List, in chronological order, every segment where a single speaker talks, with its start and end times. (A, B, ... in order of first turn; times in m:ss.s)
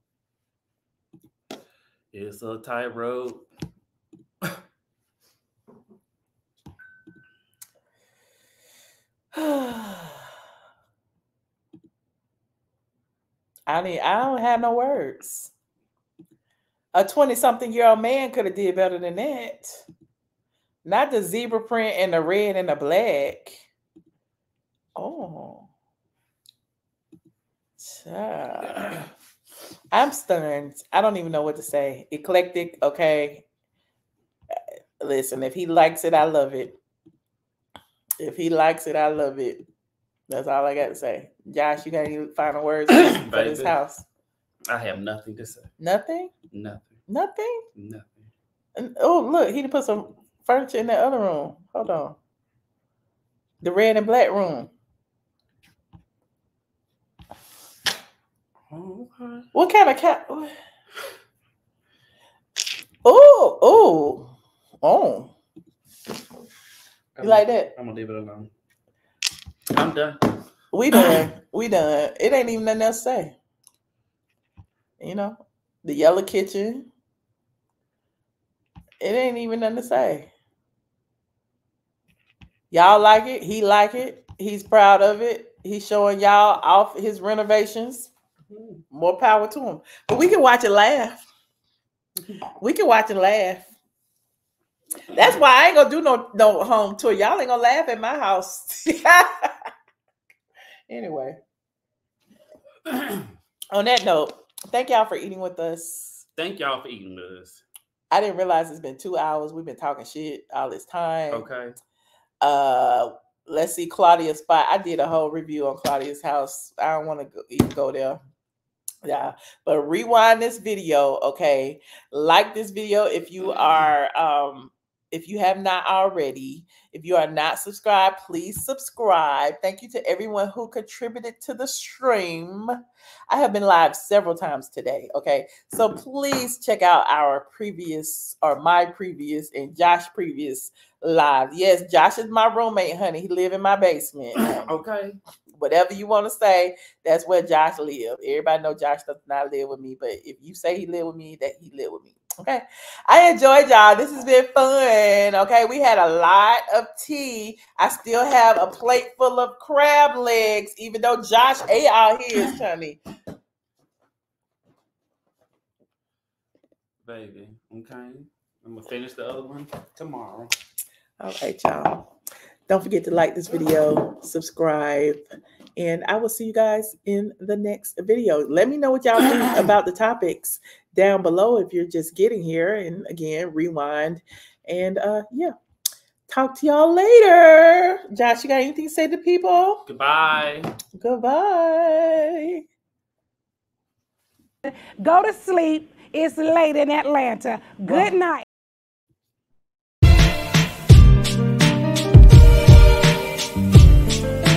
0:02.1-0:03.5 A
0:09.3-0:10.2 B
0:13.7-0:15.5 B
0:16.9-0:19.8 B
0:20.9-0:23.6 B
0:25.0-0:25.7 B
0:27.8-0:29.1 B
0:29.9-0:33.4 B
0:35.0-0:36.8 B
0:38.2-0:39.6 B
0:40.3-0:44.0 B
0:42.9-0:43.8 A
0:44.7-0:45.7 A
0:45.8-0:46.3 B
0:46.5-0:47.0 A
0:47.1-0:47.6 B
0:47.8-0:48.3 A
0:48.8-0:52.2 B
0:53.6-0:54.7 B
0:58.7-0:59.5 A
0:59.5-1:00.5 B
1:03.0-1:05.3 B
1:07.2-1:08.5 A
1:07.2-1:07.7 B
1:09.7-1:10.3 A
1:10.7-1:13.4 B
1:10.9-1:11.2 A
1:15.0-1:16.9 B
1:19.0-1:20.3 B
1:22.7-1:28.1 B
1:28.5-1:28.8 A
1:28.9-1:31.3 B
1:32.6-1:33.7 B
1:35.1-1:39.5 B
1:40.9-1:41.4 B
1:42.9-1:43.3 A
1:43.7-1:46.2 B
1:46.4-1:47.6 A
1:48.1-1:51.5 B
1:51.3-1:51.8 A
1:52.4-1:58.2 B
1:59.0-2:12.8 B
2:13.3-2:24.6 B
2:24.4-2:25.2 A
2:25.6-2:43.0 B
2:47.0-2:50.5 A
2:51.2-2:52.0 B
2:52.7-2:55.2 B
2:55.8-3:05.5 B
3:06.3-3:09.8 B
3:09.9-3:10.7 A
3:11.0-3:12.6 B
3:14.6-3:18.4 C